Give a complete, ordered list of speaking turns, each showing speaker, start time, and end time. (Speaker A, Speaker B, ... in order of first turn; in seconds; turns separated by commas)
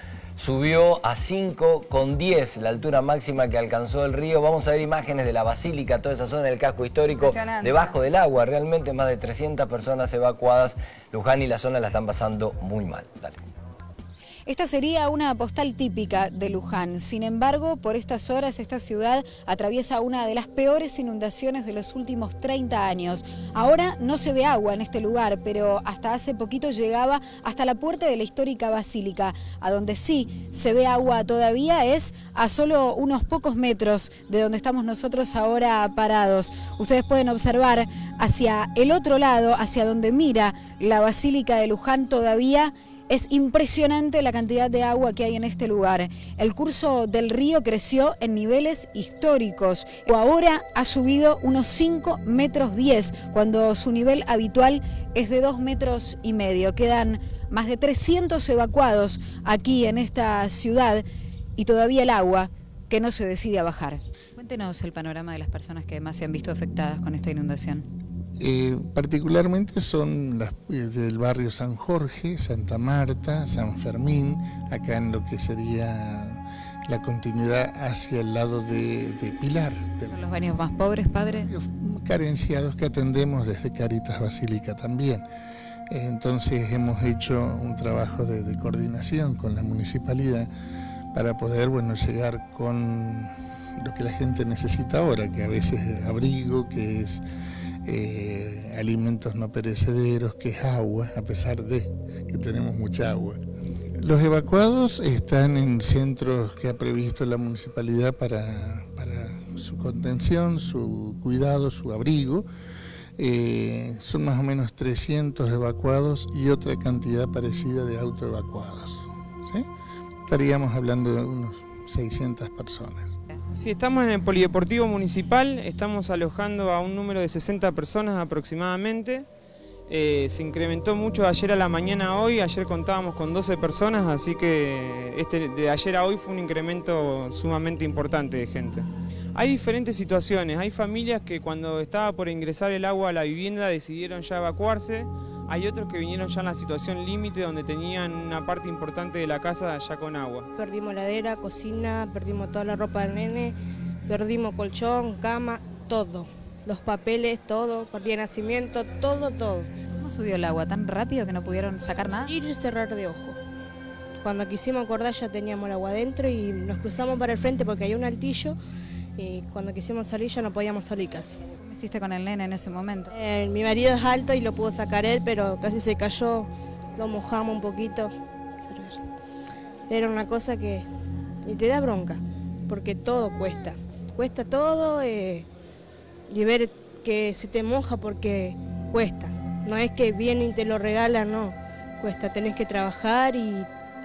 Speaker A: 0.3-13.4, Speaker B: 7.2-7.9, Speaker B: 14.4-61.0, Speaker B: 61.6-67.8, Speaker C: 68.4-80.3, Speaker B: 80.1-81.5, Speaker C: 81.1-85.2, Speaker C: 85.9-90.5, Speaker C: 91.1-97.2, Speaker C: 97.8-103.4, Speaker C: 104.0-112.5, Speaker C: 113.2-119.7, Speaker C: 120.3-123.2, Speaker D: 123.5-129.2, Speaker D: 129.9-150.5, Speaker E: 150.6-159.7, Speaker B: 159.9-162.3, Speaker E: 162.2-163.4, Speaker E: 164.2-168.6, Speaker E: 169.2-171.4, Speaker B: 171.6-173.1, Speaker E: 173.1-178.1, Speaker E: 178.6-179.0, Speaker E: 179.9-180.9, Speaker E: 181.4-185.5, Speaker E: 186.3-193.7